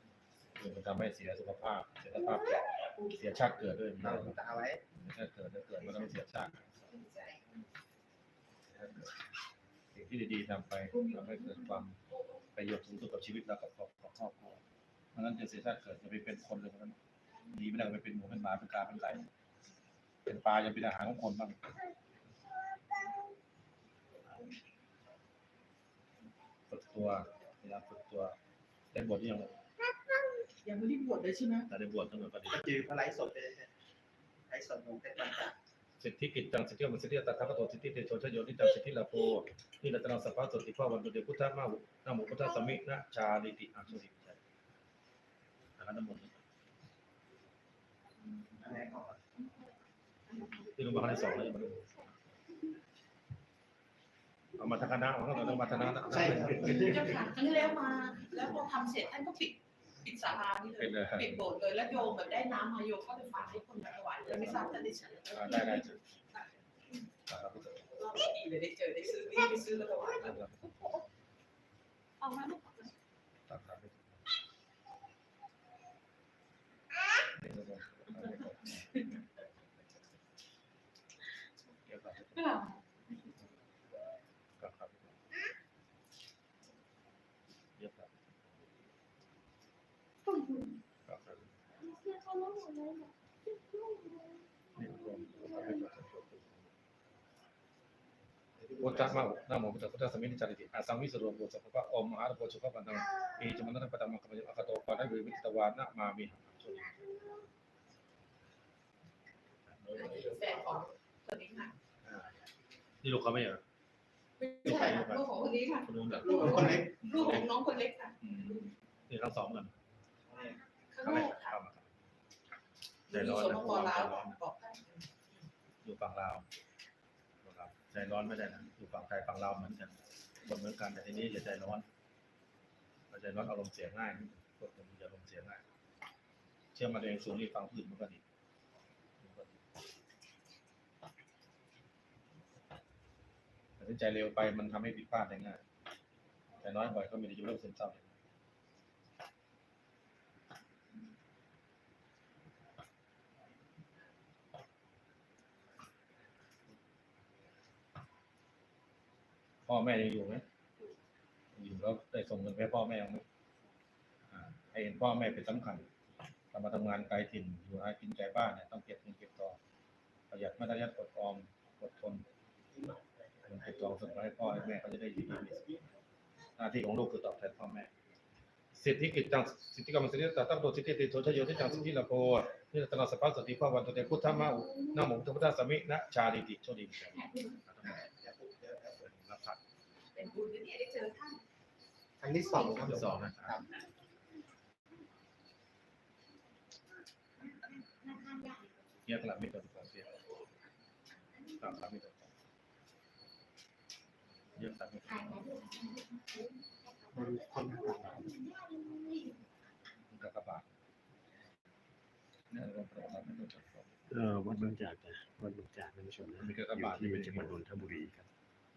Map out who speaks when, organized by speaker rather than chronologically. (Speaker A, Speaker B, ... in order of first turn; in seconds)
Speaker A: 0.6-4.4, 4.9-6.6, 10.0-11.9, 12.5-14.6, 15.1-17.0, 17.5-19.2, 20.2-21.6, 26.7-28.4, 28.9-29.5, 31.7-32.7, 36.0-44.4, 45.8-46.4, 50.8-52.1, 54.6-57.0, 60.7-61.5, 64.3-64.6, 65.3-66.0, 67.3-67.9, 70.1-71.0, 73.5-74.3, 77.4-79.0, 81.8-82.6, 84.6-85.2, 87.8-88.5, 91.0-91.5, 94.8-96.7, 98.8-107.1, 109.7-110.4, 112.0-112.3, 113.0-113.6, 114.6-115.3, 115.8-117.5, 118.2-119.7, 121.0-121.8, 123.1-124.4, 125.8-126.4, 127.4-131.8, 133.1-135.6, 136.7-138.2, 139.2-139.5, 143.8-145.6, 146.6-148.1, 159.7-160.4, 161.5-163.2, 164.3-165.8, 166.5-169.6, 170.3-172.2, 173.4-175.6, 176.6-177.9, 178.7-188.0, 189.0-189.6, 192.6-193.6, 199.1-200.2, 201.6-202.3, 204.6-205.6, 210.1-210.7, 212.5-214.1, 216.4-217.7
Speaker B: 4.0-4.8, 32.5-33.7, 34.5-35.5, 48.6-49.2, 56.1-57.0, 98.6-99.3, 116.2-116.9, 172.7-175.9, 187.8-189.0, 192.2-193.7, 207.1-208.4
Speaker C: 6.8-7.5, 10.9-11.6, 30.5-31.7, 50.3-50.7, 55.6-67.1, 67.9-71.0, 72.2-72.9, 78.8-79.1, 82.3-82.8, 109.9-111.8, 114.4-118.2, 120.9-121.6, 123.1-125.4, 187.2-187.5, 190.1-191.4
Speaker D: 214.1-218.3